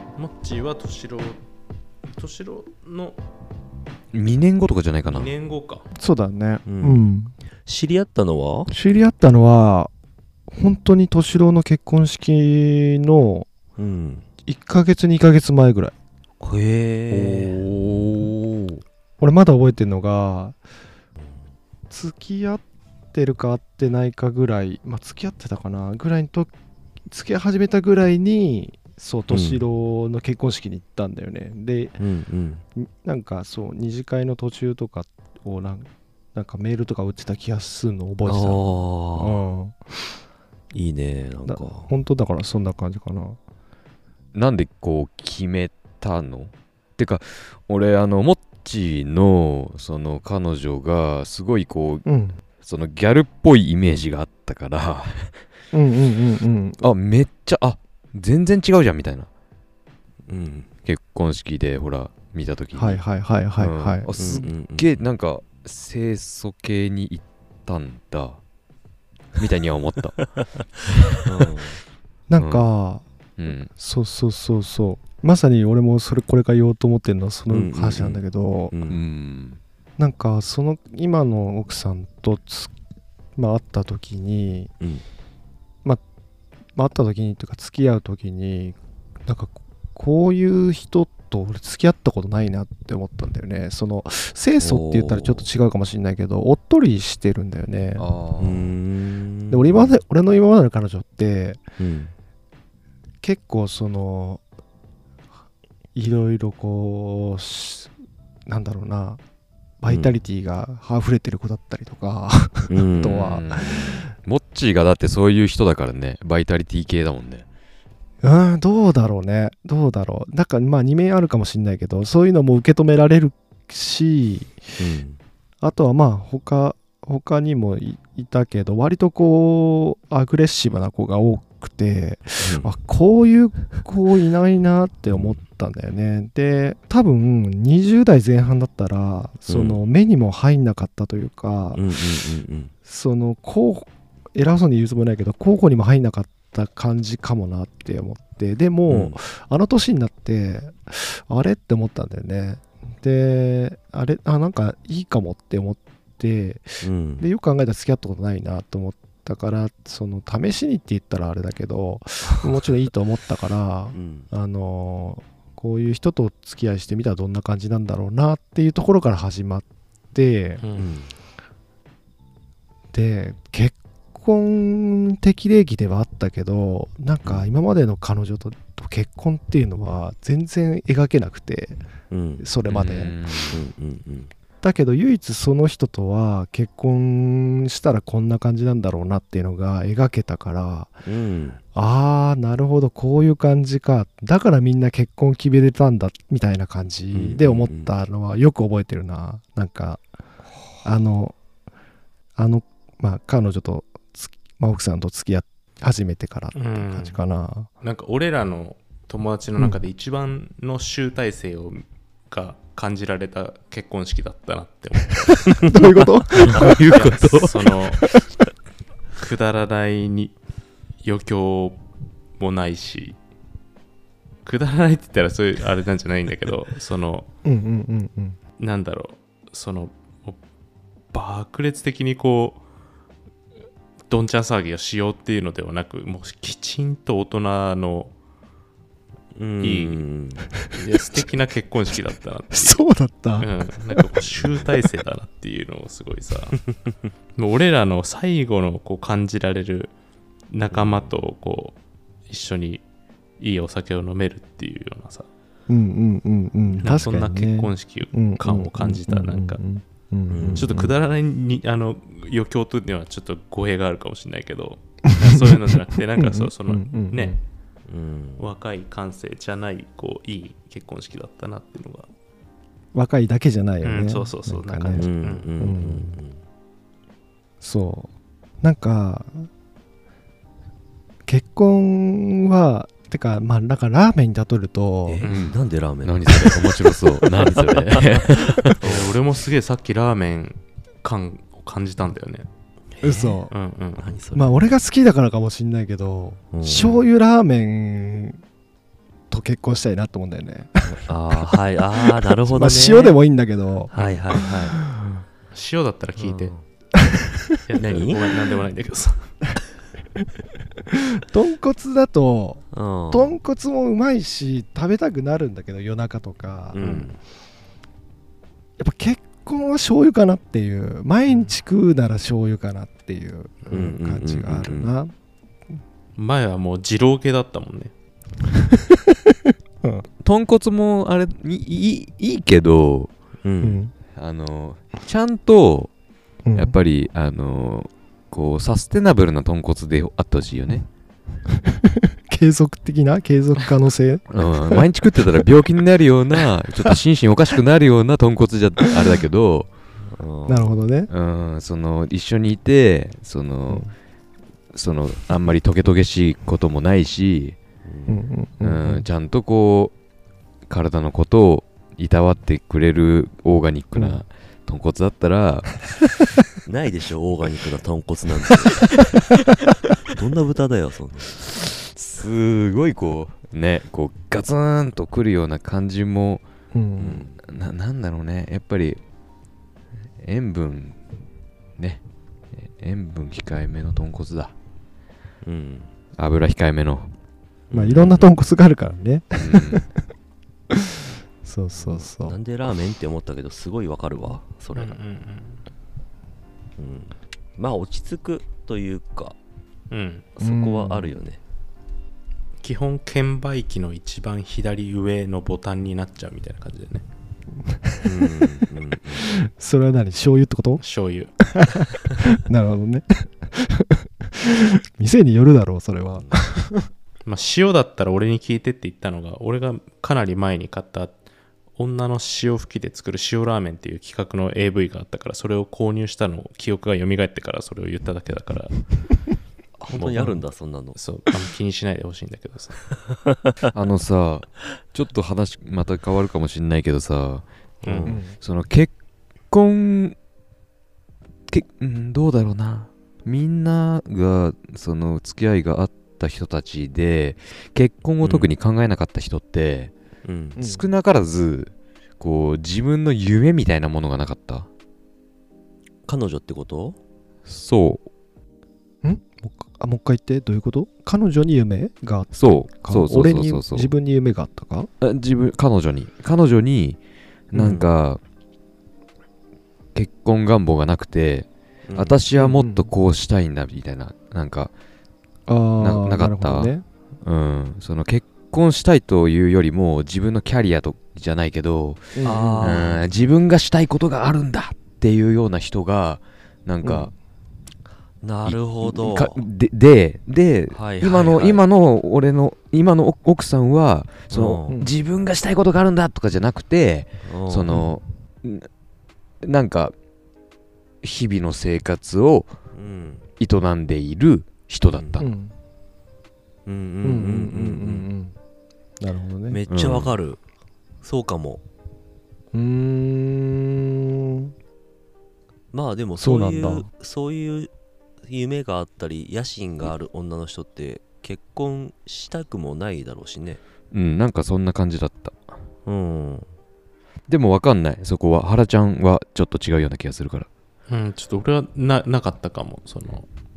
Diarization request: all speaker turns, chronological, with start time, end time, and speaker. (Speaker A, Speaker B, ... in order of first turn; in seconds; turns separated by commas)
Speaker A: 0.2-1.4, Speaker A: 2.1-3.2, Speaker B: 4.1-5.3, Speaker A: 5.0-5.9, Speaker C: 6.0-7.3, Speaker D: 6.7-7.1, Speaker D: 7.7-8.7, Speaker C: 8.7-9.9, Speaker C: 10.5-13.5, Speaker D: 13.8-14.2, Speaker C: 14.5-15.9, Speaker D: 16.4-17.6, Speaker B: 17.1-18.8, Speaker C: 19.2-20.6, Speaker C: 21.9-26.5, Speaker C: 27.1-32.0, Speaker D: 29.3-29.6, Speaker D: 32.0-32.6, Speaker C: 32.8-40.2, Speaker D: 38.2-39.4, Speaker D: 40.7-41.9, Speaker C: 41.5-43.4, Speaker B: 44.3-52.1, Speaker C: 52.1-52.4, Speaker B: 52.6-55.4, Speaker C: 55.7-56.9, Speaker B: 56.8-59.3, Speaker D: 60.3-60.7, Speaker B: 60.9-63.0, Speaker C: 62.7-64.4, Speaker B: 63.6-68.4, Speaker D: 64.2-65.0, Speaker B: 69.4-70.2, Speaker D: 70.2-70.7, Speaker D: 71.3-71.8, Speaker C: 72.3-73.0, Speaker B: 72.4-72.7, Speaker B: 73.4-73.7, Speaker C: 73.8-78.8, Speaker D: 77.5-79.0, Speaker B: 78.9-79.6, Speaker C: 80.0-82.7, Speaker C: 83.4-84.7, Speaker C: 86.8-98.0, Speaker D: 94.6-95.5, Speaker B: 98.0-98.7, Speaker D: 98.4-100.0, Speaker C: 99.5-101.6, Speaker D: 101.8-102.1, Speaker C: 103.2-104.4, Speaker C: 106.0-107.9, Speaker C: 108.5-109.2, Speaker C: 109.8-114.1, Speaker D: 109.9-110.2, Speaker D: 112.7-113.2, Speaker B: 113.1-117.5, Speaker C: 118.2-124.8, Speaker D: 124.8-125.2, Speaker C: 125.6-141.9, Speaker D: 132.4-132.8, Speaker D: 139.5-139.8, Speaker D: 141.7-142.7, Speaker C: 142.9-170.6, Speaker D: 148.9-149.2, Speaker D: 156.8-157.3, Speaker D: 163.9-164.3, Speaker A: 170.6-170.9, Speaker D: 170.8-171.1, Speaker C: 172.9-181.8, Speaker D: 177.2-177.5, Speaker D: 182.1-182.5, Speaker C: 182.4-183.1, Speaker B: 182.7-183.6, Speaker D: 183.5-184.3, Speaker C: 184.6-191.0, Speaker D: 191.1-191.6, Speaker C: 191.7-200.0, Speaker D: 197.1-197.9, Speaker C: 200.8-201.4, Speaker C: 202.4-207.7, Speaker A: 206.5-207.2, Speaker A: 207.8-215.7, Speaker C: 215.5-217.2, Speaker B: 216.3-217.8, Speaker A: 216.9-218.1, Speaker A: 219.2-220.4, Speaker A: 221.0-221.8, Speaker A: 222.4-223.2, Speaker A: 224.4-227.3, Speaker C: 227.4-228.4, Speaker A: 228.6-230.4, Speaker A: 231.1-232.6, Speaker A: 234.1-238.1, Speaker D: 239.3-240.5, Speaker A: 239.6-240.0, Speaker A: 240.7-242.8, Speaker C: 242.5-244.0, Speaker A: 243.4-246.6, Speaker D: 244.3-244.7, Speaker A: 247.4-249.9, Speaker A: 250.5-251.8, Speaker D: 250.7-251.1, Speaker A: 252.3-252.8, Speaker A: 253.4-255.3, Speaker C: 255.7-260.9, Speaker A: 256.8-259.6, Speaker D: 260.3-260.8, Speaker A: 260.6-267.4, Speaker C: 266.2-267.4, Speaker D: 267.9-268.4, Speaker A: 268.4-272.1, Speaker C: 272.9-276.2, Speaker A: 273.8-275.5, Speaker D: 274.9-276.4, Speaker C: 277.6-278.1, Speaker C: 278.6-279.5, Speaker C: 281.3-285.3, Speaker D: 285.1-289.2, Speaker B: 285.3-288.8, Speaker A: 288.8-292.5, Speaker D: 292.9-293.4, Speaker C: 293.0-293.5, Speaker A: 293.5-294.1, Speaker D: 294.0-294.7, Speaker C: 294.3-298.4, Speaker D: 296.5-297.1, Speaker C: 299.3-301.4, Speaker D: 300.9-303.2, Speaker C: 302.3-305.1, Speaker D: 303.9-304.8, Speaker A: 305.5-306.6, Speaker D: 306.2-306.6, Speaker A: 307.7-309.3, Speaker D: 307.8-308.2, Speaker C: 311.2-317.0, Speaker D: 312.7-313.4, Speaker D: 316.7-317.2, Speaker A: 316.8-317.1, Speaker C: 318.8-325.1, Speaker A: 321.3-321.6, Speaker D: 323.7-324.9, Speaker A: 326.2-327.9, Speaker B: 330.2-333.1, Speaker D: 333.4-333.9, Speaker C: 333.6-333.9, Speaker B: 334.1-335.9, Speaker C: 336.5-336.8, Speaker B: 336.6-340.9, Speaker C: 341.7-344.9, Speaker B: 344.3-349.7, Speaker D: 350.2-350.7, Speaker C: 350.5-351.1, Speaker B: 351.1-353.9, Speaker B: 354.7-357.6, Speaker D: 357.9-358.2, Speaker C: 358.1-359.1, Speaker B: 358.6-359.9, Speaker B: 360.7-366.0, Speaker C: 364.0-364.2, Speaker D: 366.7-368.8, Speaker D: 370.1-371.4, Speaker B: 371.5-376.4, Speaker C: 376.7-377.2, Speaker D: 377.0-377.4, Speaker B: 377.4-379.0, Speaker B: 380.2-381.0, Speaker B: 382.6-384.5, Speaker D: 385.4-385.9, Speaker B: 386.2-387.1, Speaker D: 387.7-388.0, Speaker C: 387.7-389.9, Speaker B: 387.9-388.2, Speaker B: 389.4-389.8, Speaker C: 391.4-392.4, Speaker D: 391.8-395.0, Speaker A: 394.8-395.6, Speaker D: 396.8-399.4, Speaker A: 399.9-400.3, Speaker D: 400.4-401.4, Speaker C: 400.4-401.2, Speaker A: 402.6-407.1, Speaker C: 407.7-408.6, Speaker D: 408.0-409.4, Speaker C: 409.1-410.9, Speaker A: 410.8-411.3, Speaker C: 412.1-416.9, Speaker D: 416.1-416.4, Speaker A: 417.2-421.2, Speaker A: 421.8-428.9, Speaker D: 429.8-431.0, Speaker A: 429.9-430.4, Speaker A: 430.9-432.9, Speaker B: 433.7-437.5, Speaker D: 437.8-438.2, Speaker A: 437.8-438.2, Speaker C: 438.1-438.4, Speaker B: 438.3-438.9, Speaker B: 439.5-440.2, Speaker B: 441.5-449.9, Speaker D: 448.2-448.5, Speaker D: 450.2-450.6, Speaker C: 450.6-450.9, Speaker B: 450.6-454.7, Speaker D: 456.1-457.0, Speaker B: 457.5-458.1, Speaker C: 459.0-464.9, Speaker B: 462.3-463.9, Speaker B: 465.0-467.0, Speaker B: 467.5-468.2, Speaker C: 467.6-467.8, Speaker B: 469.9-474.7, Speaker D: 471.9-472.2, Speaker C: 472.4-472.9, Speaker C: 475.5-476.9, Speaker B: 475.8-487.1, Speaker C: 482.1-482.8, Speaker D: 482.2-483.1, Speaker C: 486.8-487.1, Speaker D: 488.2-489.5, Speaker B: 488.4-498.7, Speaker D: 490.7-491.6, Speaker D: 494.3-494.8, Speaker D: 497.2-497.8, Speaker C: 497.7-498.0, Speaker B: 499.4-499.9, Speaker B: 501.0-502.5, Speaker D: 502.7-503.2, Speaker B: 503.4-505.2, Speaker D: 504.9-505.2, Speaker C: 505.2-505.6, Speaker D: 506.7-508.1, Speaker C: 507.0-508.4, Speaker C: 509.0-509.6, Speaker D: 509.5-510.4, Speaker B: 509.7-510.2, Speaker D: 511.0-511.6, Speaker C: 512.5-514.5, Speaker D: 515.7-517.7, Speaker C: 516.2-516.9, Speaker D: 518.3-523.6, Speaker B: 523.9-525.5, Speaker D: 525.9-526.5, Speaker B: 527.3-530.5, Speaker A: 530.9-533.3